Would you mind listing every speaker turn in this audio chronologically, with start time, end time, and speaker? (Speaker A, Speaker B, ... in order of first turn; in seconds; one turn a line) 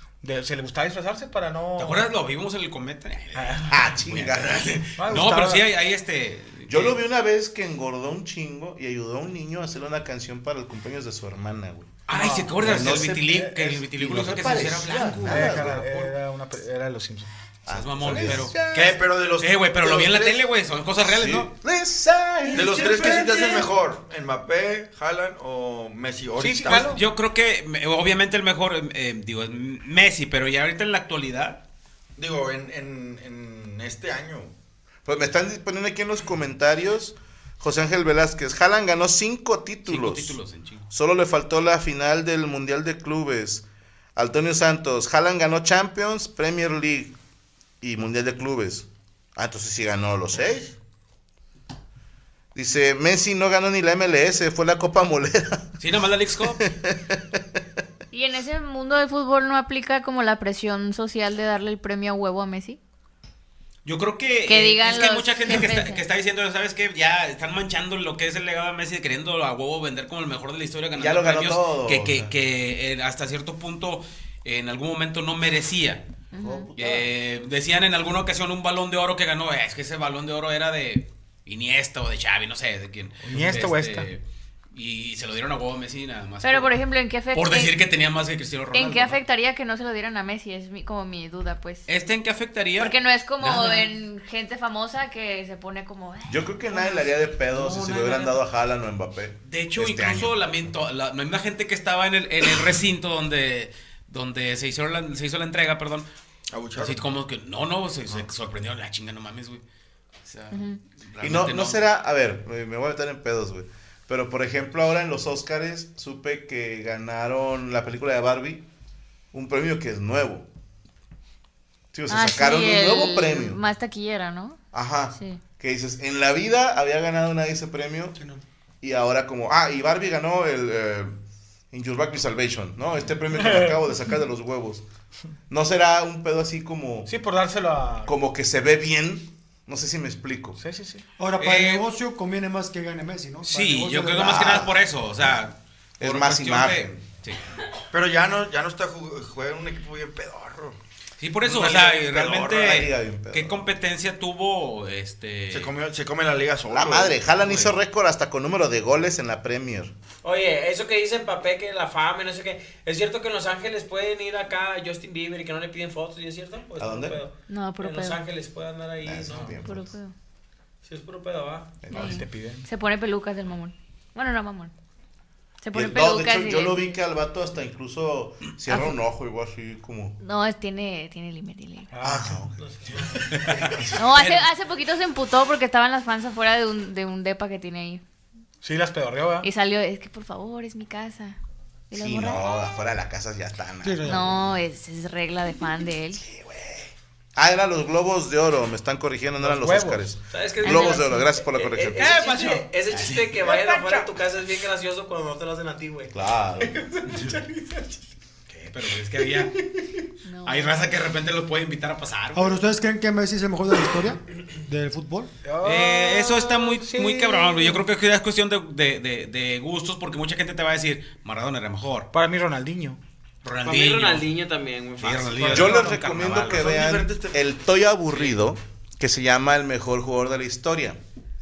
Speaker A: 0.2-2.0
Speaker B: 1.8-7.0
Speaker A: 3.4-3.7
Speaker C: 3.7-4.8
Speaker A: 5.0-5.6
Speaker C: 6.7-12.0
Speaker B: 12.1-16.1
Speaker A: 12.1-14.6
Speaker C: 12.6-15.8
Speaker A: 15.2-17.3
Speaker C: 17.6-18.6
Speaker B: 17.7-18.7
Speaker D: 18.6-20.4
Speaker B: 19.4-21.5
Speaker C: 21.0-23.6
Speaker D: 22.5-27.0
Speaker A: 22.8-23.3
Speaker A: 26.4-27.0
Speaker B: 26.7-31.6
Speaker D: 32.1-34.5
Speaker C: 35.0-40.4
Speaker B: 39.9-40.9
Speaker C: 40.9-47.1
Speaker C: 47.8-50.7
Speaker C: 52.5-55.8
Speaker B: 55.8-56.6
Speaker C: 56.6-57.4
Speaker E: 58.1-62.8
Speaker B: 63.9-76.0
Speaker E: 64.5-66.0
Speaker C: 71.0-72.3
Speaker E: 76.3-76.7
Speaker C: 76.4-77.1
Speaker B: 76.8-84.2
Speaker A: 83.3-84.1
Speaker B: 84.7-86.8
Speaker E: 86.4-87.7
Speaker B: 87.3-89.2
Speaker E: 88.7-91.9
Speaker B: 91.9-93.9
Speaker E: 92.8-97.3
Speaker C: 96.3-100.4
Speaker B: 97.5-98.3
Speaker E: 97.9-98.2
Speaker B: 99.4-106.0
Speaker D: 106.5-107.0
Speaker B: 106.8-109.6
Speaker B: 110.2-111.8
Speaker E: 110.5-110.8
Speaker C: 111.2-118.6
Speaker C: 119.3-120.5
Speaker C: 121.9-123.6
Speaker E: 122.1-124.6
Speaker C: 124.7-128.2
Speaker E: 125.1-125.4
Speaker C: 128.8-131.1
Speaker C: 131.7-134.8
Speaker A: 133.4-133.7
Speaker C: 135.5-137.1
Speaker A: 137.1-138.1
Speaker C: 138.1-140.6
Speaker A: 140.6-141.0
Speaker F: 141.2-144.7
Speaker B: 141.4-141.8
Speaker B: 143.5-147.4
Speaker C: 144.1-144.8
Speaker C: 146.0-147.0
Speaker D: 147.9-150.8
Speaker B: 151.2-155.7
Speaker C: 151.4-153.6
Speaker D: 151.7-152.6
Speaker D: 155.5-157.2
Speaker C: 156.7-159.9
Speaker B: 157.4-157.7
Speaker G: 160.2-169.6
Speaker C: 166.8-167.2
Speaker E: 167.5-168.2
Speaker C: 169.0-169.9
Speaker E: 169.6-170.1
Speaker G: 170.8-171.8
Speaker C: 171.8-172.2
Speaker E: 171.9-174.7
Speaker A: 171.9-172.7
Speaker E: 175.6-177.0
Speaker C: 175.7-180.2
Speaker E: 180.2-181.9
Speaker A: 181.9-183.8
Speaker C: 182.0-183.9
Speaker B: 183.3-184.4
Speaker E: 183.9-188.0
Speaker A: 188.6-189.5
Speaker E: 189.4-191.4
Speaker E: 191.9-192.6
Speaker C: 191.9-194.3
Speaker F: 193.8-194.3
Speaker E: 194.0-196.2
Speaker C: 196.2-202.1
Speaker A: 199.4-200.1
Speaker G: 200.3-206.2
Speaker B: 202.0-203.9
Speaker A: 202.2-202.6
Speaker C: 206.1-206.8
Speaker A: 206.9-208.0
Speaker B: 208.5-209.5
Speaker A: 209.6-210.0
Speaker E: 210.2-211.0
Speaker B: 210.4-212.6
Speaker F: 212.3-215.3
Speaker A: 215.4-217.8
Speaker B: 215.6-222.1
Speaker A: 222.1-223.0
Speaker B: 223.4-224.3
Speaker G: 223.6-225.5
Speaker B: 225.0-226.8
Speaker A: 225.4-225.9
Speaker C: 225.5-231.0
Speaker D: 226.3-227.4